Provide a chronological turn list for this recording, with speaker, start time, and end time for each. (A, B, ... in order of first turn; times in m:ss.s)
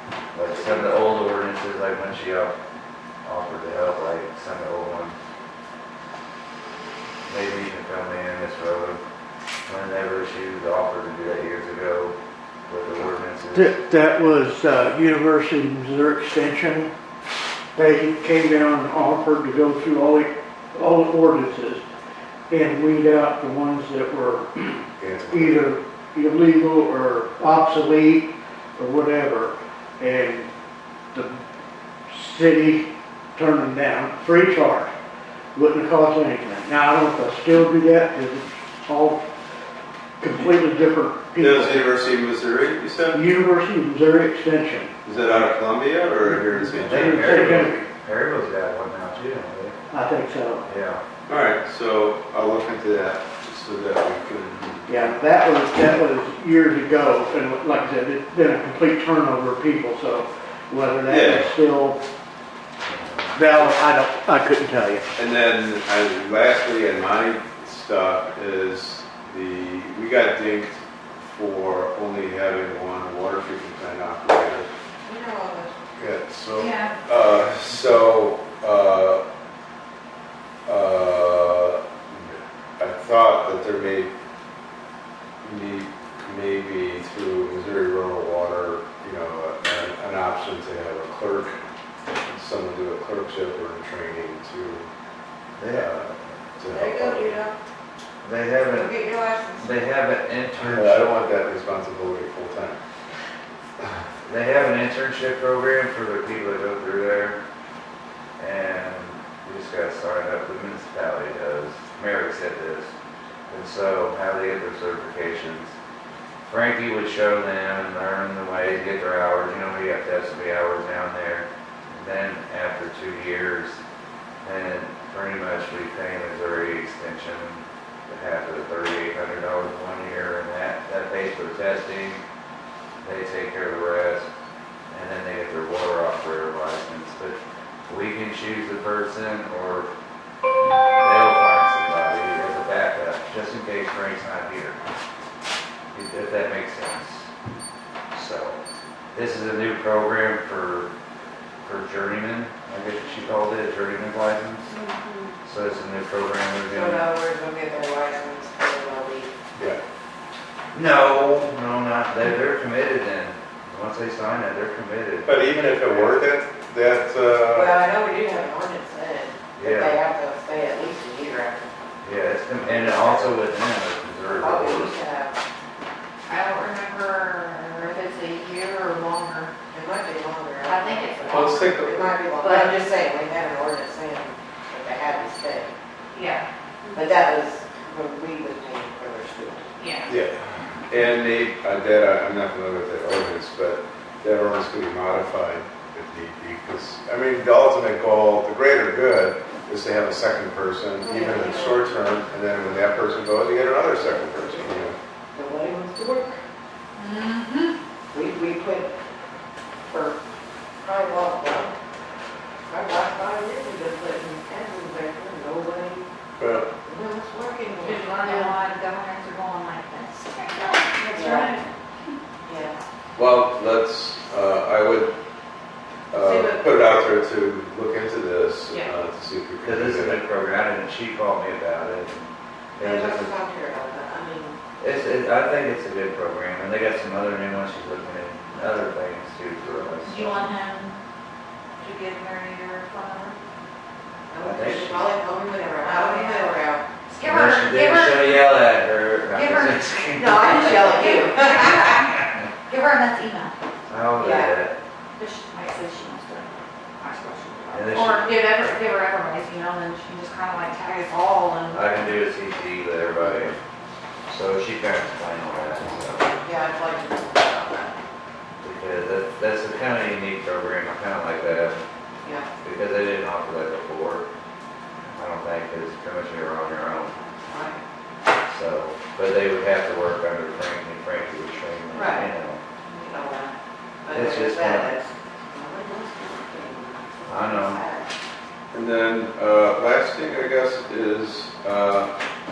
0:00.3-0:02.5 A
0:03.2-0:05.2 A
0:07.2-0:09.0 A
0:09.7-0:12.1 A
0:12.7-0:13.8 A
0:13.5-0:16.9 B
0:17.8-0:21.8 B
0:22.5-0:30.5 B
0:25.0-0:25.6 C
0:31.1-0:31.4 B
0:32.1-0:34.9 B
0:35.6-0:39.2 B
0:40.2-0:41.9 B
0:41.4-0:43.2 C
0:43.1-0:45.0 B
0:45.0-0:47.6 C
0:46.2-0:47.9 B
0:46.8-0:49.8 A
0:49.9-0:50.7 B
0:50.7-0:51.0 A
0:51.3-0:55.0 C
0:54.9-1:02.0 B
1:01.0-1:01.5 C
1:02.8-1:03.4 A
1:03.3-1:05.1 B
1:05.2-1:14.7 C
1:15.0-1:15.8 D
1:16.0-1:19.2 C
1:16.6-1:16.9 E
1:20.7-1:24.1 C
1:25.4-1:31.6 C
1:32.2-1:34.9 C
1:35.6-1:35.9 A
1:35.7-1:37.4 C
1:36.7-1:37.6 D
1:38.2-1:39.0 A
1:38.7-1:39.7 D
1:39.6-1:41.1 A
1:40.6-1:42.8 C
1:44.2-1:47.4 A
1:48.4-1:52.9 A
1:53.5-1:55.7 A
1:56.4-2:03.8 A
2:04.4-2:12.2 A
2:13.0-2:14.3 A
2:14.9-2:17.4 A
2:17.9-2:19.9 A
2:21.0-2:24.8 A
2:25.9-2:27.3 A
2:28.1-2:28.6 A
2:29.1-2:30.9 A
2:31.6-2:34.8 A
2:34.8-2:35.2 E
2:35.4-2:37.1 A
2:36.7-2:39.3 D
2:40.7-2:46.1 A
2:45.2-2:47.8 C
2:47.5-2:51.9 D
2:49.6-2:50.0 A
2:52.0-2:55.0 A
2:52.6-2:53.4 D
2:54.2-2:55.4 D
2:56.3-2:59.5 E
2:59.7-3:05.7 D
3:00.6-3:02.8 E
3:01.3-3:02.2 C
3:06.1-3:07.0 E
3:06.9-3:09.7 D
3:09.8-3:10.1 E
3:10.1-3:25.0 C
3:21.0-3:21.9 D
3:24.6-3:26.4 D
3:27.0-3:27.8 E
3:28.1-3:28.9 D
3:29.9-3:30.2 D
3:30.8-3:31.7 D
3:32.7-3:36.0 D
3:36.4-3:36.7 C
3:36.8-3:38.6 D
3:37.7-3:41.7 E
3:41.1-3:41.6 D
3:42.5-3:42.8 D
3:43.2-3:45.1 C
3:46.1-3:50.2 C
3:46.2-3:47.0 D
3:49.6-3:53.3 A
3:52.8-3:54.6 D
3:54.8-4:00.5 A
4:00.0-4:01.0 E
4:01.8-4:03.4 E
4:04.3-4:06.9 D
4:04.4-4:05.1 A
4:05.8-4:08.4 E
4:07.2-4:11.1 A
4:09.3-4:09.9 E
4:10.2-4:12.0 D
4:10.4-4:13.6 E
4:13.9-4:14.8 A
4:14.2-4:14.6 D
4:15.2-4:22.0 E
4:17.7-4:18.7 A
4:21.7-4:23.6 A
4:24.3-4:26.4 A
4:26.4-4:27.9 D
4:28.6-4:31.8 A
4:32.2-4:32.5 D
4:32.6-4:34.2 A
4:35.0-4:37.2 A
4:37.5-4:37.8 D
4:38.4-4:42.6 A
4:41.9-4:42.3 E
4:42.9-4:43.3 E
4:43.0-4:43.5 D
4:44.0-4:48.1 D
4:44.1-4:45.0 A
4:47.2-4:47.8 A
4:48.7-4:52.1 C